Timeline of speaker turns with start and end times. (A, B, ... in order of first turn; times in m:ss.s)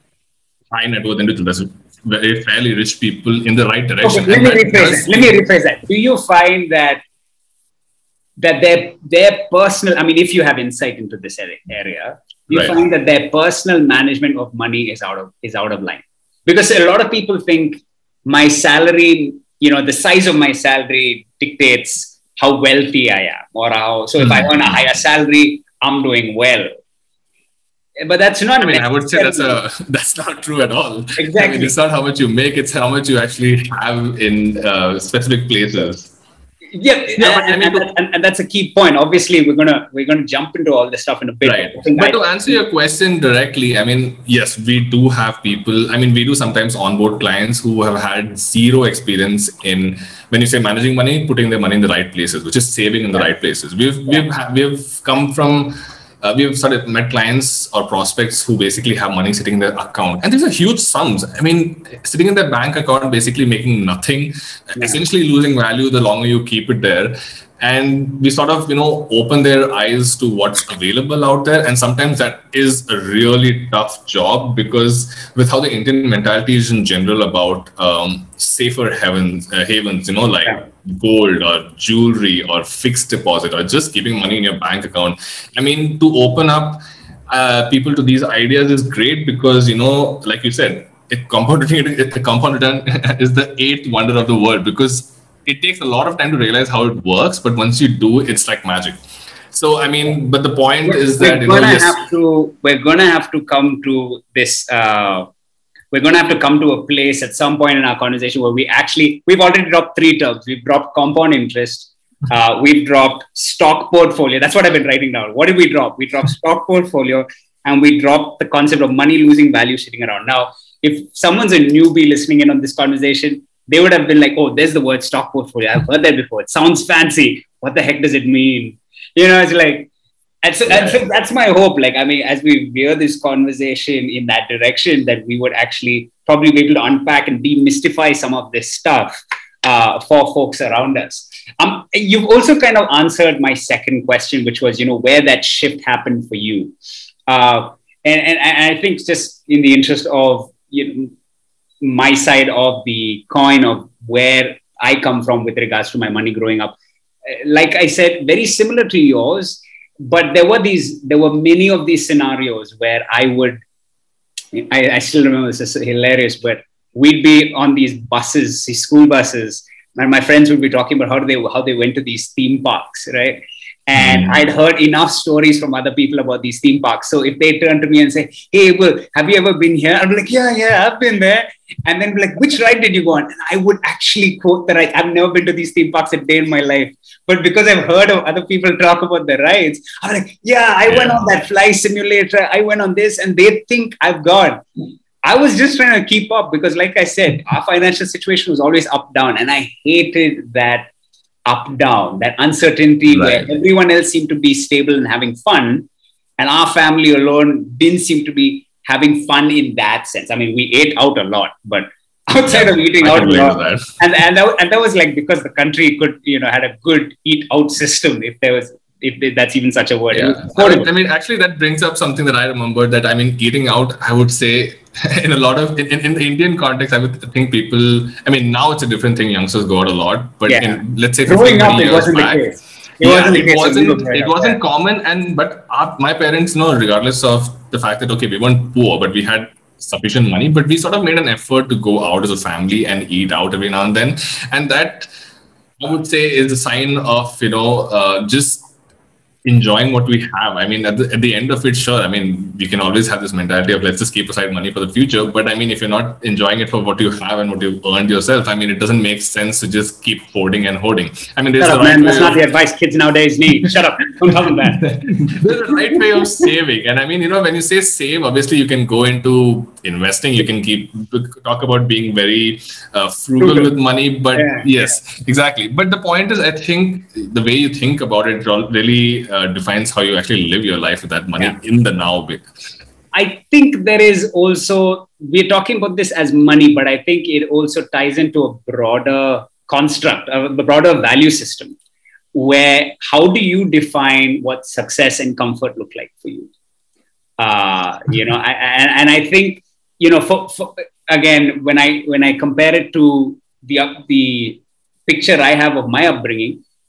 0:00.7-0:05.4 A
0:04.0-0:07.0 B
0:08.4-0:26.7 B
0:12.5-0:12.8 A
0:24.2-0:24.7 A
0:28.0-0:29.6 B
0:28.6-0:36.1 A
0:31.2-0:31.7 B
0:36.7-0:42.2 B
0:37.2-0:37.9 A
0:41.4-1:39.0 A
1:39.5-1:42.0 A
1:40.8-1:45.3 B
1:45.9-2:09.9 B
2:10.4-2:26.7 B
2:10.7-2:11.0 A
2:27.3-2:31.1 B
2:31.8-2:36.8 B
2:37.3-2:43.6 B
2:44.5-3:14.6 B
2:53.9-2:54.4 A
3:10.9-3:11.2 A
3:15.2-3:20.9 B
3:21.4-3:25.9 B
3:23.1-3:23.4 A
3:26.4-3:40.9 B
3:32.5-3:33.9 A
3:40.1-3:52.4 A
3:50.4-3:54.6 B
3:53.0-4:05.1 A
4:05.8-4:08.7 A
4:09.4-4:22.4 A
4:21.6-4:24.8 B
4:24.3-4:42.4 A
4:33.4-4:33.7 B
4:34.4-4:34.7 B
4:43.1-4:51.7 B
4:52.3-4:56.5 B
4:57.4-5:06.6 B